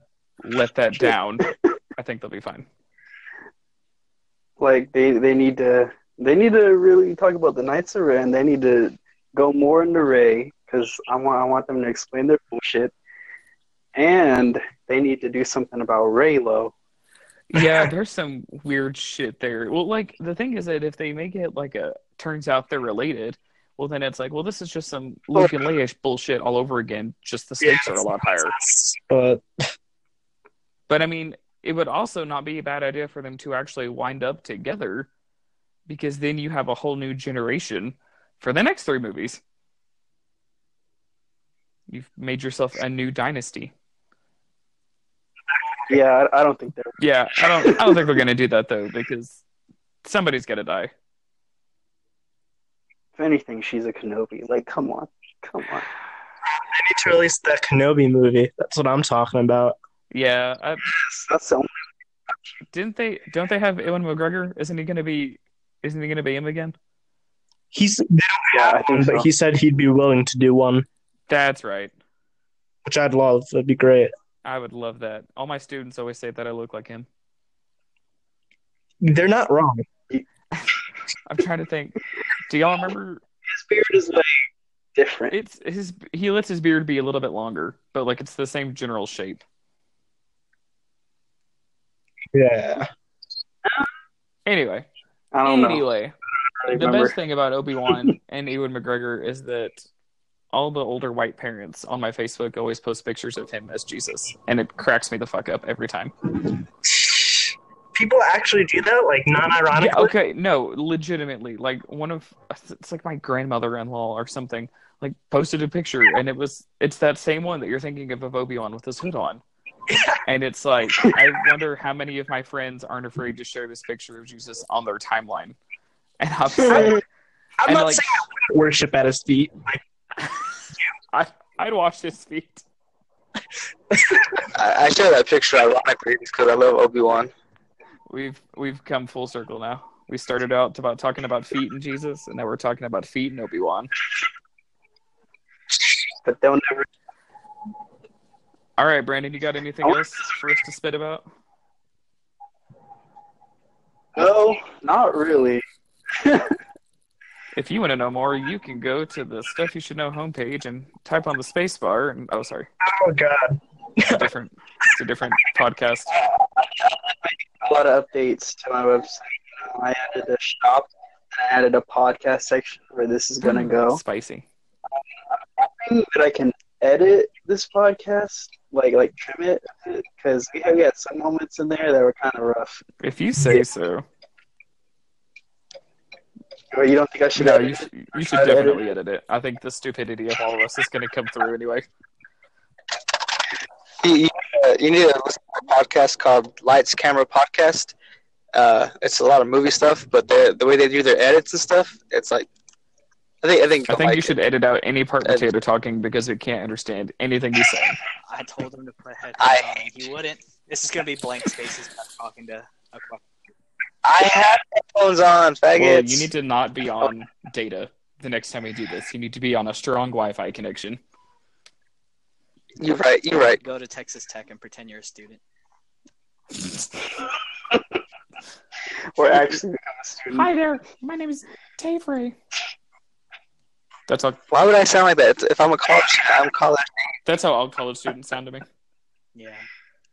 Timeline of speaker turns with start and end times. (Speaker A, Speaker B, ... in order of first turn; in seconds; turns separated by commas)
Speaker A: 0.4-2.7, Speaker B: 4.6-12.9, Speaker B: 13.9-16.7, Speaker A: 17.5-28.5, Speaker C: 17.6-17.9, Speaker C: 27.6-29.4, Speaker A: 30.9-35.1, Speaker A: 35.9-39.4, Speaker A: 41.9-43.7, Speaker B: 45.9-47.0, Speaker A: 47.0-49.4, Speaker B: 47.6-47.9, Speaker A: 50.0-50.9, Speaker B: 53.2-55.9, Speaker C: 56.5-59.8, Speaker A: 60.1-60.9, Speaker B: 60.9-61.8, Speaker A: 62.7-66.8, Speaker C: 67.7-70.8, Speaker B: 68.5-69.3, Speaker A: 71.3-71.9, Speaker C: 72.8-74.1, Speaker A: 74.4-77.1, Speaker C: 79.0-79.8, Speaker A: 81.2-83.2, Speaker B: 83.5-84.3, Speaker B: 85.0-85.3, Speaker A: 85.3-89.4, Speaker C: 92.3-92.9, Speaker A: 94.5-94.9, Speaker B: 95.3-95.8, Speaker A: 95.4-96.1, Speaker B: 96.6-97.2, Speaker A: 96.7-99.8, Speaker A: 100.5-106.1, Speaker C: 106.9-110.1, Speaker A: 109.8-119.4, Speaker A: 120.2-125.5, Speaker A: 126.2-127.0, Speaker C: 126.7-126.9, Speaker C: 127.6-129.8, Speaker A: 127.6-128.2, Speaker A: 131.1-132.6, Speaker D: 134.5-137.3, Speaker A: 138.1-143.9, Speaker B: 146.2-146.8, Speaker A: 148.8-151.2, Speaker B: 149.8-150.2, Speaker B: 154.2-155.6, Speaker B: 156.2-156.5, Speaker A: 157.5-162.7, Speaker C: 162.8-164.3, Speaker A: 164.1-166.1, Speaker B: 167.2-174.0, Speaker A: 173.4-174.4, Speaker B: 175.6-182.8, Speaker A: 183.0-184.1, Speaker B: 186.7-188.8, Speaker A: 187.3-191.8, Speaker D: 194.0-197.9, Speaker D: 198.5-202.5, Speaker D: 203.4-204.3, Speaker A: 203.9-208.0, Speaker E: 208.3-213.2, Speaker D: 209.4-209.9, Speaker D: 214.0-216.3, Speaker A: 215.8-221.0, Speaker D: 222.8-223.6, Speaker E: 223.6-225.4, Speaker B: 229.2-230.5, Speaker A: 230.3-232.3, Speaker A: 234.1-234.4, Speaker D: 234.5-237.1, Speaker A: 237.2-238.6, Speaker E: 239.3-239.7